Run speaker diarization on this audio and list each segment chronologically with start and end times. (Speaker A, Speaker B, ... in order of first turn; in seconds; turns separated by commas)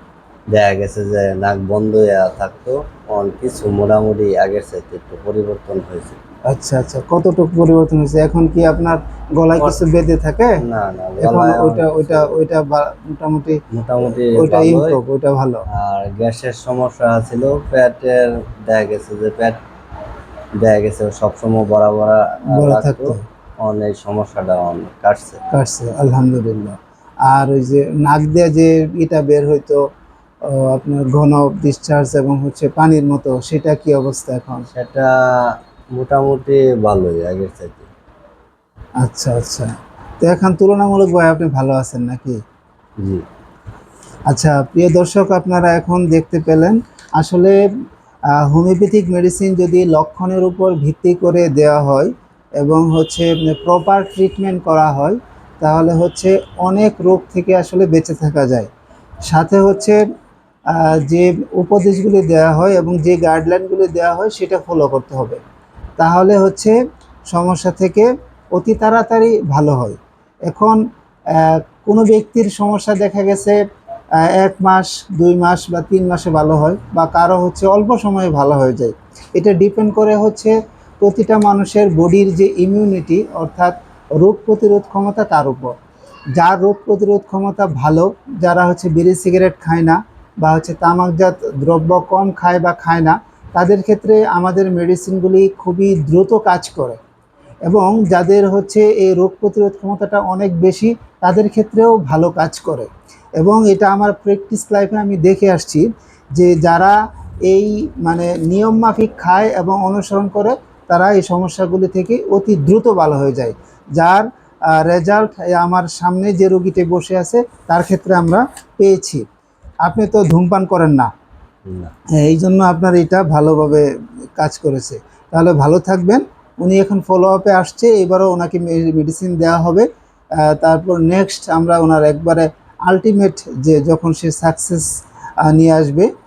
Speaker A: 0.5-6.2, Speaker B: 6.5-10.6, Speaker A: 9.6-9.8, Speaker A: 10.6-12.3, Speaker B: 11.2-15.6, Speaker A: 13.7-15.0, Speaker A: 15.7-19.6, Speaker A: 20.6-25.4, Speaker B: 22.5-23.2, Speaker B: 25.5-29.8, Speaker B: 30.5-34.7, Speaker A: 34.7-37.9, Speaker B: 39.0-42.4, Speaker B: 44.3-47.6, Speaker B: 48.4-58.7, Speaker B: 59.3-60.0, Speaker B: 60.7-65.4, Speaker B: 66.0-66.8, Speaker B: 67.3-70.8, Speaker B: 71.3-73.6, Speaker B: 74.3-85.7, Speaker B: 86.4-97.0, Speaker B: 97.7-119.3, Speaker B: 119.8-121.1, Speaker A: 121.7-121.9, Speaker B: 122.2-129.9, Speaker B: 130.4-134.9, Speaker B: 135.4-136.1